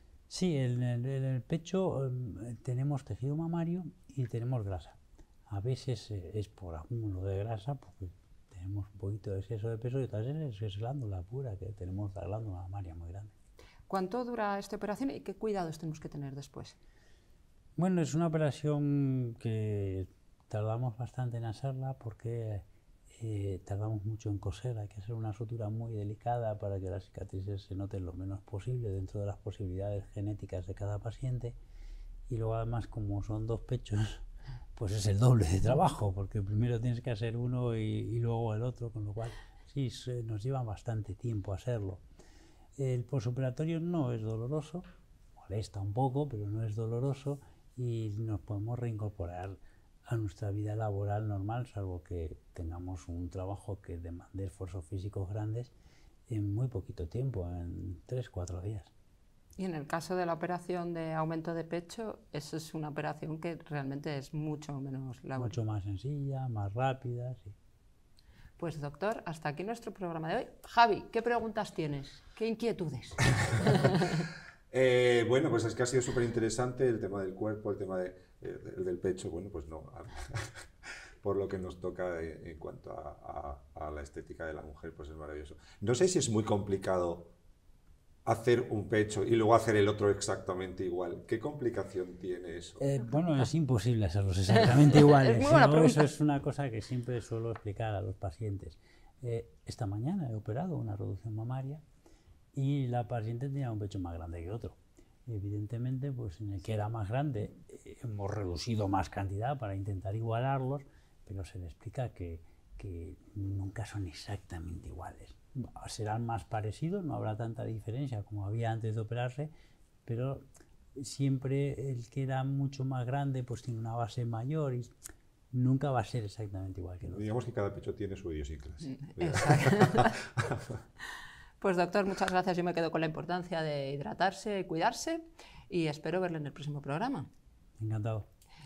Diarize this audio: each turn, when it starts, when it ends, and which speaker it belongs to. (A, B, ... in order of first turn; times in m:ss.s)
0:00.3-0:13.3 A
0:13.9-0:16.8 B
0:17.8-0:31.6 A
0:32.3-0:34.2 A
0:34.8-0:42.0 A
0:42.8-0:44.8 A
0:45.4-0:55.7 A
0:56.3-0:58.9 A
0:59.6-1:05.6 B
1:05.4-1:07.5 A
1:08.6-1:14.2 B
1:14.7-1:20.5 C
1:21.2-1:27.3 C
1:28.2-1:32.8 C
1:32.8-1:41.8 A
1:34.8-1:36.1 B
1:42.5-1:59.5 A
2:00.0-2:04.9 A
2:05.5-2:07.2 A
2:07.1-2:10.6 C
2:08.8-2:10.2 B
2:11.6-2:17.3 B
2:17.8-2:18.3 A